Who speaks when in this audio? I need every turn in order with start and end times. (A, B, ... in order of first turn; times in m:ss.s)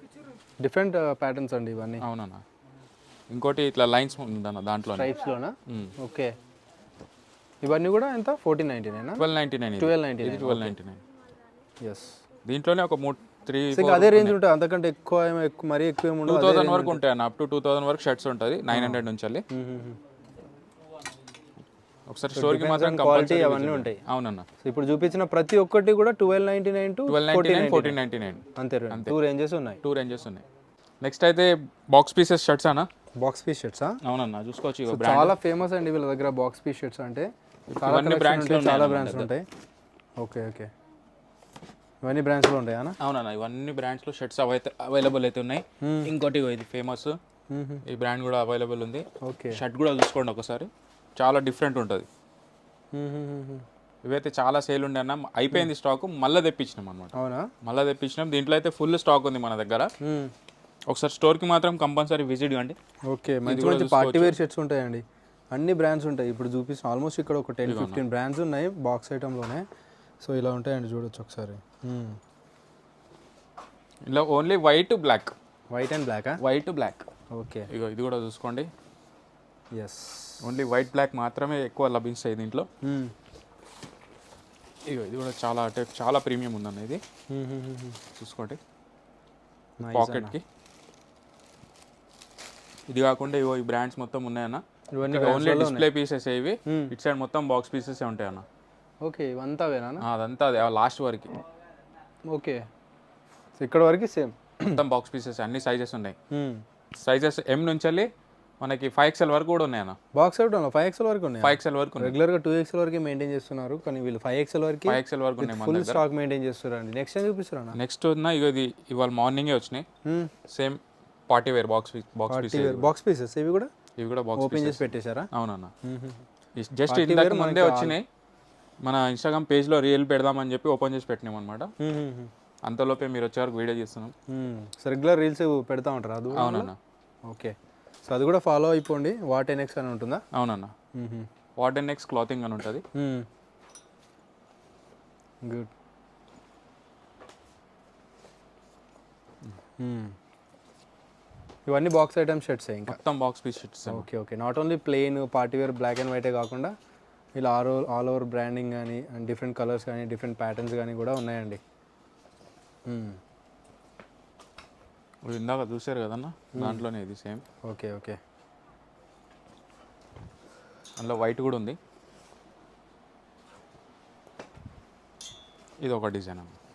0:00.6-0:02.0 A
0:02.0-0:02.4 B
0:03.3-0:05.2 B
0:04.9-0:06.3 A
0:05.7-0:06.0 B
0:07.6-0:09.3 A
0:09.2-0:11.0 B
0:09.8-0:10.8 A
0:11.8-0:12.2 A
0:12.5-0:14.4 B
0:13.7-0:17.0 A
0:16.2-0:19.5 B
0:18.7-0:20.0 A
0:22.1-0:24.5 B
0:22.3-0:24.0 A
0:24.6-0:28.0 A
0:27.1-0:29.1 B
0:28.6-0:29.8 A
0:29.8-0:30.4 B
0:31.0-0:32.9 B
0:33.2-0:34.0 A
0:34.0-0:35.4 B
0:34.9-0:37.3 A
0:37.7-0:39.3 B
0:37.8-0:39.5 A
0:40.2-0:40.7 A
0:42.0-0:43.0 A
0:43.0-0:47.2 B
0:45.8-0:46.1 A
0:47.5-0:47.8 A
0:47.9-0:52.1 B
0:49.2-0:49.6 A
0:52.9-0:53.6 A
0:54.0-0:59.9 B
0:57.2-0:57.5 A
1:00.0-1:00.3 A
1:00.9-1:02.8 B
1:03.1-1:09.6 A
1:03.5-1:04.4 B
1:07.7-1:08.0 B
1:10.2-1:12.2 A
1:14.1-1:15.3 B
1:15.7-1:16.4 A
1:16.4-1:17.1 B
1:17.3-1:17.7 A
1:17.7-1:18.7 B
1:19.7-1:20.4 A
1:20.4-1:22.7 B
1:22.8-1:23.1 A
1:24.9-1:27.0 B
1:27.3-1:28.0 A
1:28.2-1:28.6 B
1:29.8-1:30.4 A
1:29.9-1:30.4 B
1:32.9-1:38.4 B
1:34.9-1:35.9 A
1:36.7-1:36.9 A
1:39.0-1:40.0 A
1:40.0-1:41.4 B
1:42.3-1:42.6 A
1:43.6-1:44.8 A
1:44.6-1:46.2 B
1:46.3-1:46.6 A
1:47.0-1:50.0 B
1:50.2-1:57.8 A
1:51.4-1:52.2 B
1:54.9-1:56.0 B
1:57.7-1:59.8 B
2:00.0-2:00.3 A
2:00.5-2:02.9 B
2:02.3-2:03.7 A
2:04.0-2:05.7 B
2:04.4-2:05.3 A
2:05.8-2:06.2 A
2:06.6-2:08.0 B
2:06.9-2:08.0 A
2:08.8-2:11.7 B
2:11.8-2:12.3 A
2:12.6-2:14.1 B
2:14.3-2:16.7 A
2:16.3-2:16.8 B
2:17.3-2:17.5 A
2:18.0-2:20.2 A
2:20.3-2:20.7 B
2:21.0-2:21.3 A
2:21.6-2:22.8 B
2:23.0-2:23.3 A
2:25.4-2:25.7 A
2:29.8-2:30.2 A
2:31.7-2:33.0 A
2:32.9-2:34.1 B
2:33.9-2:36.7 A
2:37.4-2:41.6 A
2:42.9-2:43.2 A
2:45.2-2:47.4 B
2:46.5-2:46.8 A
2:47.7-2:48.2 A
2:51.0-2:51.8 B
2:55.8-2:56.6 B